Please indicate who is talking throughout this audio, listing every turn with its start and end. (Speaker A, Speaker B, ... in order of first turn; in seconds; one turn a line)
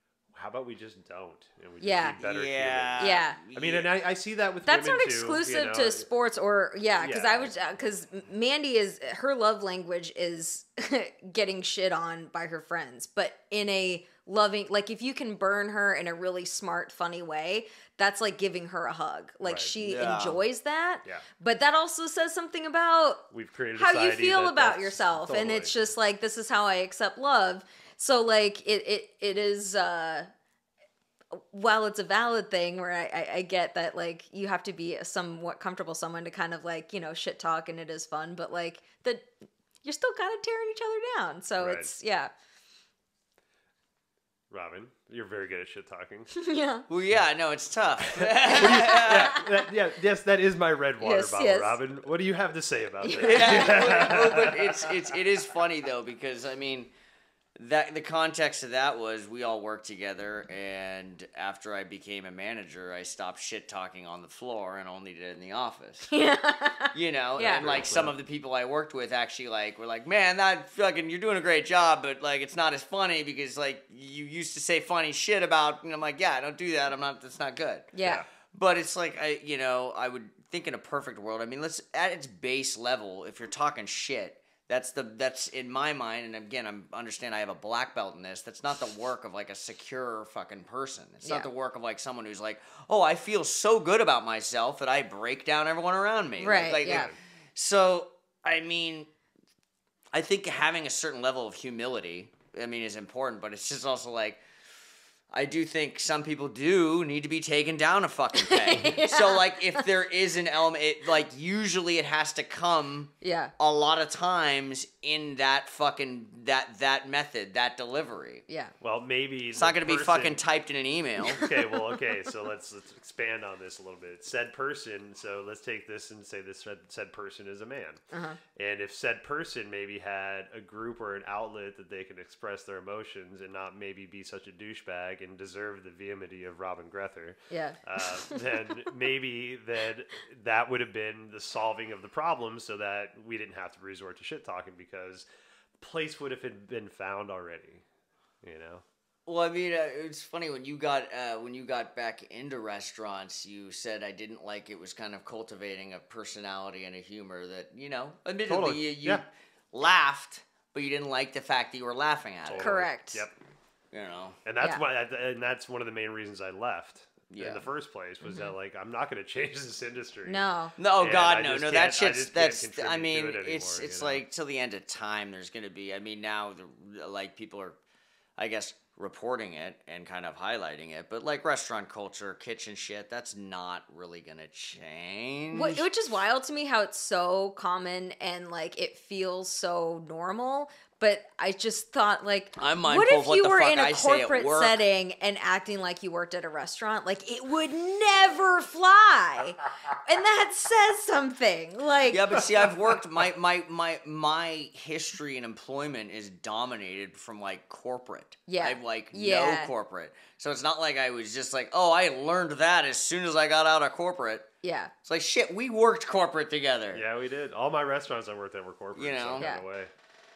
Speaker A: 0.3-6.1
Speaker B: 1.8-2.2
Speaker C: 2.2-3.9
Speaker B: 3.0-3.4
Speaker B: 4.7-30.3
Speaker A: 7.0-7.6
Speaker A: 19.4-19.8
Speaker C: 19.8-20.4
Speaker A: 23.3-25.7
Speaker B: 31.3-39.3
Speaker B: 39.8-42.3
Speaker A: 41.6-41.9
Speaker A: 44.5-46.3
Speaker B: 46.3-46.9
Speaker C: 46.9-49.4
Speaker A: 48.0-55.1
Speaker B: 48.6-49.4
Speaker B: 51.0-51.8
Speaker B: 53.0-54.2
Speaker C: 53.2-56.9
Speaker C: 57.6-66.2
Speaker B: 66.1-67.8
Speaker C: 66.9-78.0
Speaker A: 67.4-68.2
Speaker B: 77.9-78.2
Speaker C: 78.5-99.1
Speaker B: 96.4-97.1
Speaker A: 96.8-97.2
Speaker C: 100.1-104.4
Speaker C: 105.3-118.5
Speaker B: 108.4-109.9
Speaker B: 113.2-113.5
Speaker B: 118.5-118.7
Speaker A: 118.8-120.4
Speaker C: 119.5-121.5
Speaker A: 121.3-128.0
Speaker B: 121.4-122.0
Speaker B: 128.1-128.4
Speaker A: 128.6-145.3
Speaker B: 137.5-138.6
Speaker A: 145.8-147.8
Speaker A: 148.4-148.8
Speaker C: 149.3-162.8
Speaker A: 158.5-159.2
Speaker A: 162.5-163.3
Speaker B: 162.6-163.3
Speaker C: 163.9-164.4
Speaker A: 164.4-170.4
Speaker C: 167.3-167.7
Speaker B: 168.2-168.5
Speaker B: 170.3-170.8
Speaker C: 170.8-177.8
Speaker A: 170.9-174.2
Speaker C: 178.4-185.9
Speaker B: 185.5-202.4
Speaker C: 192.6-194.8
Speaker C: 202.1-214.5
Speaker B: 208.5-209.7
Speaker B: 214.6-214.9
Speaker C: 215.0-217.0
Speaker A: 216.9-219.9
Speaker C: 218.9-219.5
Speaker B: 219.4-219.6